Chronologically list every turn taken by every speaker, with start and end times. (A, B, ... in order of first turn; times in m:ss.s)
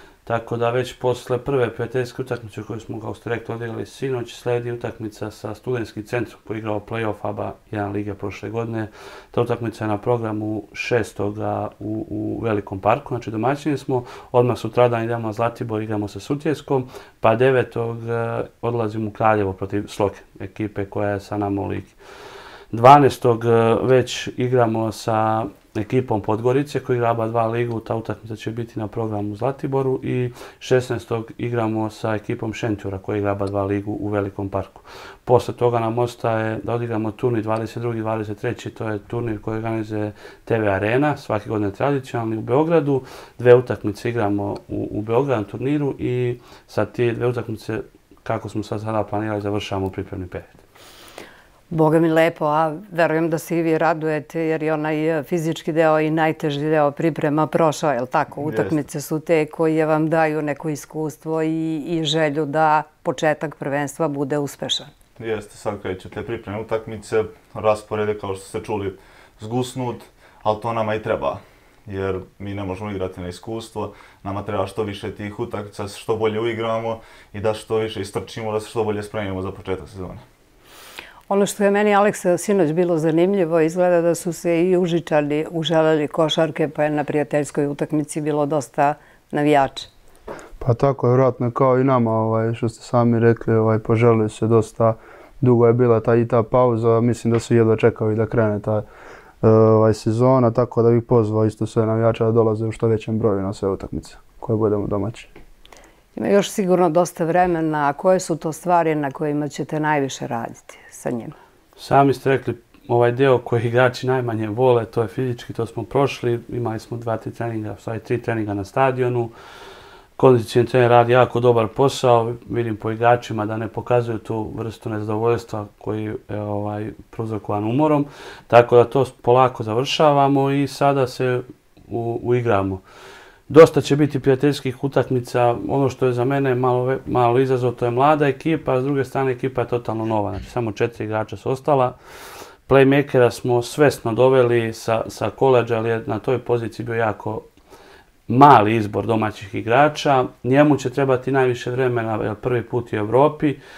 0:00.3-0:22.0 A
0:22.7-0:50.6 A
0:51.7-1:04.9 B
0:58.4-0:58.8 C
1:05.2-1:20.2 C
1:21.3-1:29.9 B
1:30.6-1:38.8 D
1:39.4-1:45.3 D
1:46.2-1:51.4 B
1:51.8-1:59.3 A
2:00.2-2:12.8 A
2:13.5-2:22.0 A
2:22.7-2:27.5 A
2:28.3-2:33.6 A